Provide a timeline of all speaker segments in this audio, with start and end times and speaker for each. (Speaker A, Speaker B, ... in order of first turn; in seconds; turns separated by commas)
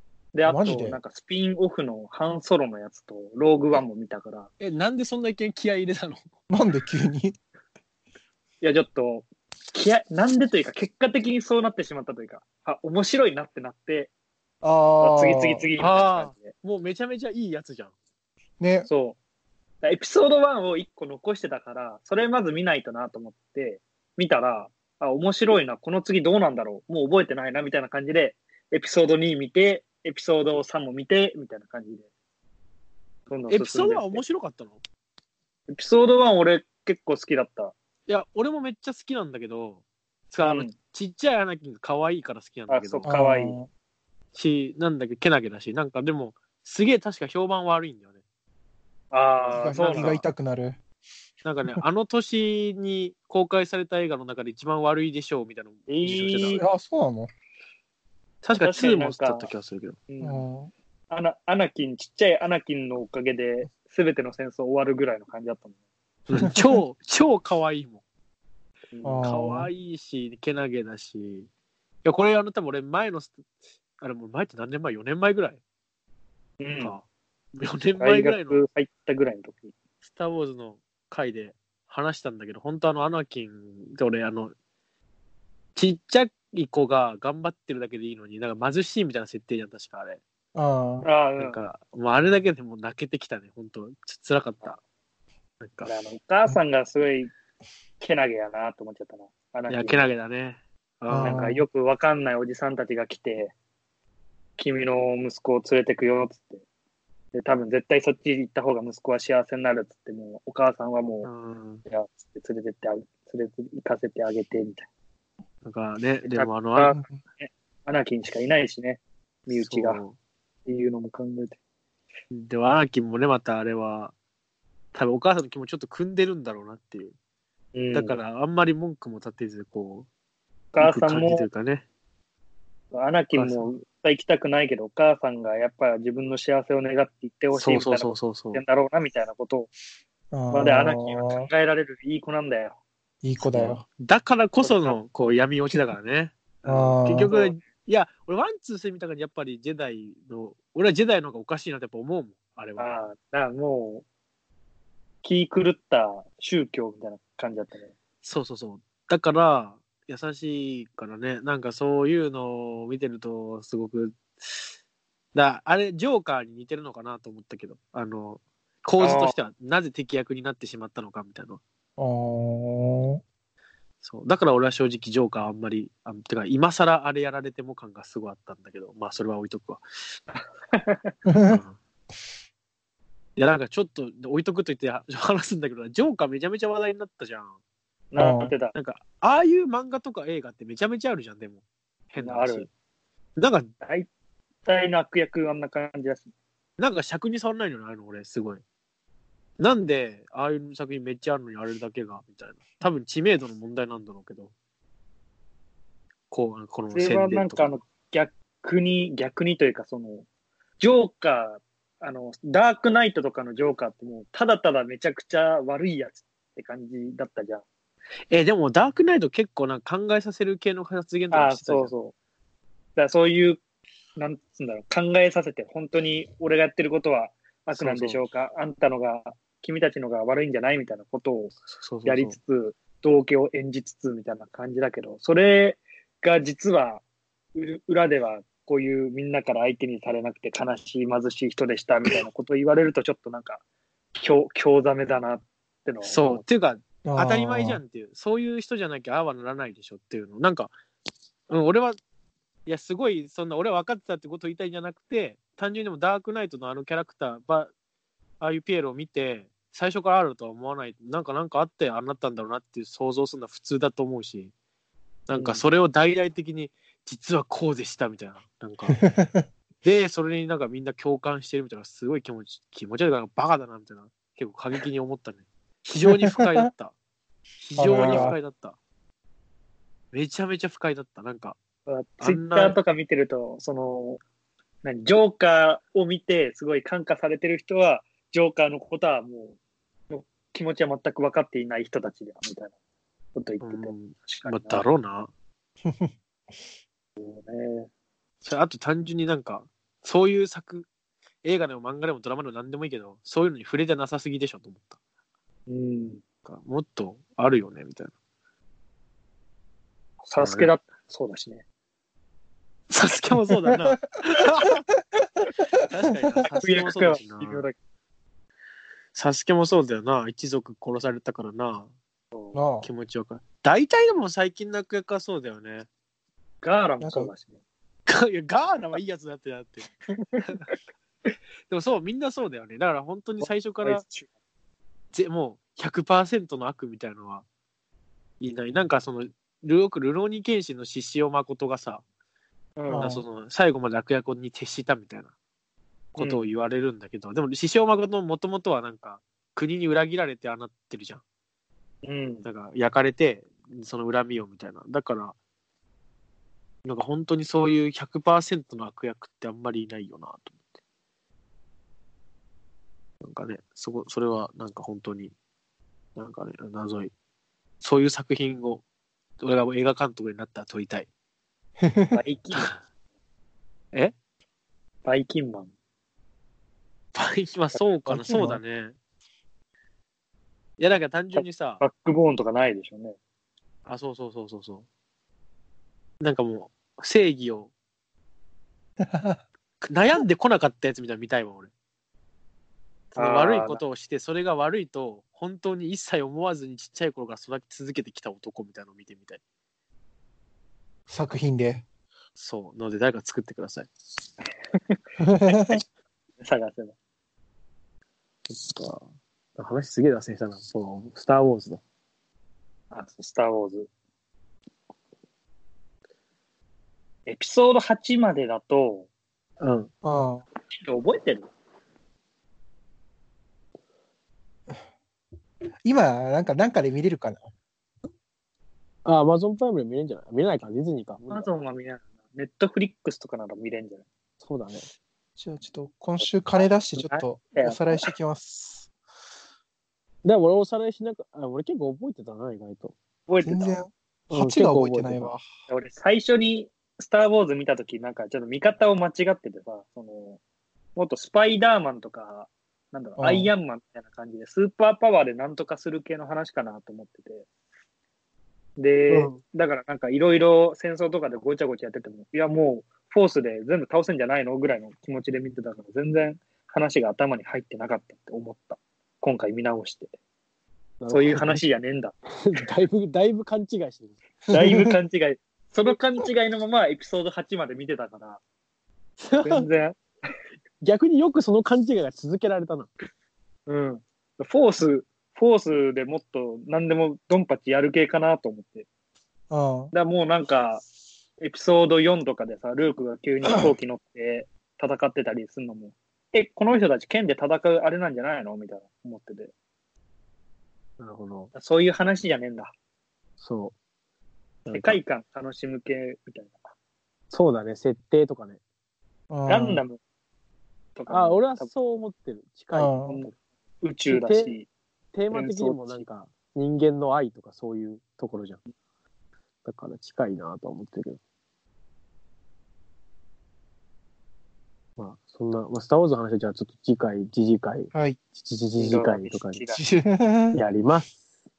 Speaker A: 0.3-4.5, Speaker B: 0.5-1.0, Speaker C: 4.6-6.3, Speaker B: 6.5-7.4, Speaker A: 8.6-14.1, Speaker B: 14.6-15.7, Speaker A: 15.0-16.5, Speaker C: 15.8-17.9, Speaker B: 18.6-18.9, Speaker A: 18.9-19.2, Speaker A: 19.8-32.1, Speaker A: 33.3-34.2, Speaker C: 33.5-34.8, Speaker A: 35.7-37.7, Speaker C: 38.1-43.1, Speaker A: 40.4-40.7, Speaker A: 42.7-43.6, Speaker B: 43.1-43.7, Speaker C: 44.3-48.2, Speaker A: 49.1-50.2, Speaker C: 49.4-50.2, Speaker B: 49.6-50.8, Speaker C: 51.4-56.6, Speaker A: 55.9-56.6, Speaker B: 56.5-57.3, Speaker C: 58.4-60.0, Speaker A: 58.6-59.5, Speaker A: 60.1-60.5, Speaker B: 60.2-60.7, Speaker A: 61.1-65.7, Speaker C: 66.3-68.0, Speaker A: 68.9-69.3, Speaker B: 69.0-69.7, Speaker C: 69.2-71.5, Speaker C: 72.0-73.3, Speaker C: 74.0-75.6, Speaker A: 76.6-77.0, Speaker C: 76.8-77.0, Speaker C: 77.6-78.6, Speaker A: 78.0-79.7, Speaker C: 80.1-84.5, Speaker C: 85.8-90.2, Speaker B: 90.5-91.1, Speaker A: 91.0-91.6, Speaker C: 91.4-94.8, Speaker C: 95.6-95.9, Speaker A: 95.8-97.3, Speaker A: 98.0-100.1, Speaker C: 99.7-101.4, Speaker B: 101.1-101.7, Speaker A: 101.2-103.5, Speaker A: 104.6-106.6, Speaker A: 107.3-111.3, Speaker C: 111.2-111.8, Speaker A: 111.9-114.9, Speaker C: 115.6-117.0, Speaker A: 116.3-120.0, Speaker B: 116.9-117.2, Speaker C: 119.5-120.2, Speaker A: 120.7-121.6, Speaker C: 122.3-124.1, Speaker C: 124.9-127.1, Speaker A: 127.7-128.2, Speaker C: 127.9-130.1, Speaker A: 130.7-131.5, Speaker C: 130.8-131.8, Speaker A: 132.9-139.7, Speaker C: 133.3-133.7, Speaker C: 137.5-138.6, Speaker B: 140.3-141.5, Speaker A: 140.5-142.8, Speaker B: 143.2-143.8, Speaker C: 143.5-152.9, Speaker A: 144.6-145.0, Speaker B: 146.7-147.3, Speaker A: 147.3-147.6, Speaker A: 152.8-154.1, Speaker A: 155.2-157.9, Speaker C: 158.2-164.7, Speaker C: 165.3-171.6, Speaker A: 169.0-169.3, Speaker B: 172.0-173.2, Speaker C: 174.0-179.8, Speaker A: 180.3-181.1, Speaker B: 181.3-181.6, Speaker C: 181.5-181.8, Speaker C: 183.4-187.6, Speaker A: 188.1-188.7, Speaker B: 188.2-188.5, Speaker C: 188.7-192.7, Speaker A: 192.2-192.7, Speaker C: 193.4-193.7, Speaker A: 194.7-196.3, Speaker C: 196.8-198.6, Speaker C: 199.6-204.5, Speaker C: 206.3-207.8, Speaker A: 206.9-210.2, Speaker A: 210.8-217.6, Speaker C: 218.3-221.9, Speaker A: 221.3-222.1, Speaker A: 223.0-223.6, Speaker A: 224.2-237.0, Speaker C: 227.7-228.2, Speaker C: 231.7-232.4, Speaker A: 237.6-243.6, Speaker A: 244.2-246.4, Speaker C: 246.1-250.7, Speaker B: 247.1-247.8, Speaker C: 251.5-252.0, Speaker C: 252.7-257.7, Speaker C: 258.4-264.5, Speaker C: 265.3-269.0, Speaker A: 265.4-265.6, Speaker B: 269.0-269.5, Speaker C: 269.8-276.9, Speaker B: 276.2-276.7, Speaker C: 277.6-278.8, Speaker B: 277.8-278.4, Speaker A: 277.9-278.4, Speaker C: 280.1-281.6, Speaker A: 281.9-284.2, Speaker C: 282.2-282.8, Speaker A: 284.8-289.6, Speaker A: 290.1-292.7, Speaker A: 293.4-294.9, Speaker C: 293.6-295.3, Speaker B: 295.9-296.1, Speaker A: 297.2-297.9, Speaker C: 298.4-300.9, Speaker C: 301.4-305.0, Speaker A: 305.7-306.2, Speaker C: 306.4-308.1, Speaker A: 310.2-311.6, Speaker C: 310.4-310.7, Speaker C: 312.9-314.8, Speaker C: 315.9-317.6, Speaker A: 316.6-317.8, Speaker C: 319.1-321.9, Speaker A: 322.3-322.6, Speaker B: 322.5-322.9, Speaker C: 322.8-325.9, Speaker A: 326.6-327.6, Speaker B: 327.0-327.3, Speaker C: 328.1-330.6, Speaker A: 330.1-330.4, Speaker C: 331.7-334.0, Speaker A: 333.4-334.3, Speaker C: 335.1-337.4, Speaker C: 338.4-342.0, Speaker A: 342.8-343.1, Speaker B: 342.9-343.2, Speaker C: 342.9-345.3, Speaker C: 346.1-351.2, Speaker A: 346.2-346.5, Speaker A: 352.0-352.5, Speaker C: 352.4-355.4, Speaker C: 356.9-360.6, Speaker C: 363.2-365.3, Speaker C: 366.2-367.1, Speaker C: 367.8-368.8, Speaker C: 369.4-371.1, Speaker B: 371.8-372.2, Speaker A: 372.1-372.7, Speaker A: 375.1-375.7, Speaker C: 377.1-379.0, Speaker B: 378.1-378.6, Speaker C: 380.8-381.8, Speaker A: 381.4-383.2, Speaker C: 383.9-384.9, Speaker C: 386.2-387.7, Speaker B: 389.0-389.4, Speaker C: 389.8-391.7, Speaker A: 393.1-393.8, Speaker C: 393.1-399.4, Speaker B: 401.1-401.8, Speaker C: 402.4-403.9, Speaker B: 405.2-405.8, Speaker A: 405.5-405.8, Speaker A: 406.4-406.9, Speaker C: 408.5-409.1, Speaker C: 409.6-411.8, Speaker A: 412.9-413.9, Speaker A: 417.3-419.1, Speaker C: 419.6-419.9, Speaker B: 420.0-420.4, Speaker A: 420.7-421.5, Speaker B: 425.8-427.5, Speaker C: 429.1-431.5, Speaker A: 431.3-434.1, Speaker C: 434.4-434.9, Speaker B: 435.4-438.9, Speaker A: 436.2-438.1, Speaker C: 440.2-443.0, Speaker A: 443.3-443.8, Speaker B: 443.4-445.4, Speaker C: 444.3-445.3, Speaker A: 445.7-450.4, Speaker A: 451.0-457.5, Speaker B: 453.2-453.5, Speaker A: 458.8-470.1, Speaker C: 459.1-459.4, Speaker C: 471.0-471.6, Speaker A: 471.1-472.6, Speaker C: 472.4-474.2, Speaker A: 474.5-478.4, Speaker B: 474.5-474.9, Speaker C: 479.2-479.7, Speaker A: 479.4-480.0, Speaker C: 480.8-482.9, Speaker A: 483.7-488.9, Speaker B: 489.5-489.9, Speaker A: 489.9-490.8, Speaker A: 491.4-499.5, Speaker C: 501.0-501.5, Speaker A: 501.6-502.7, Speaker C: 503.4-503.8, Speaker C: 504.6-505.0, Speaker A: 504.7-506.7, Speaker C: 507.3-508.6, Speaker B: 509.3-509.8, Speaker A: 509.5-510.0, Speaker A: 511.0-511.7, Speaker C: 511.1-513.0, Speaker B: 512.7-513.3, Speaker A: 513.1-514.7, Speaker C: 514.1-514.6, Speaker C: 515.1-518.6, Speaker A: 515.3-516.0, Speaker C: 519.6-521.2, Speaker C: 525.0-529.6, Speaker A: 528.8-529.8, Speaker B: 529.8-530.6, Speaker C: 530.5-531.2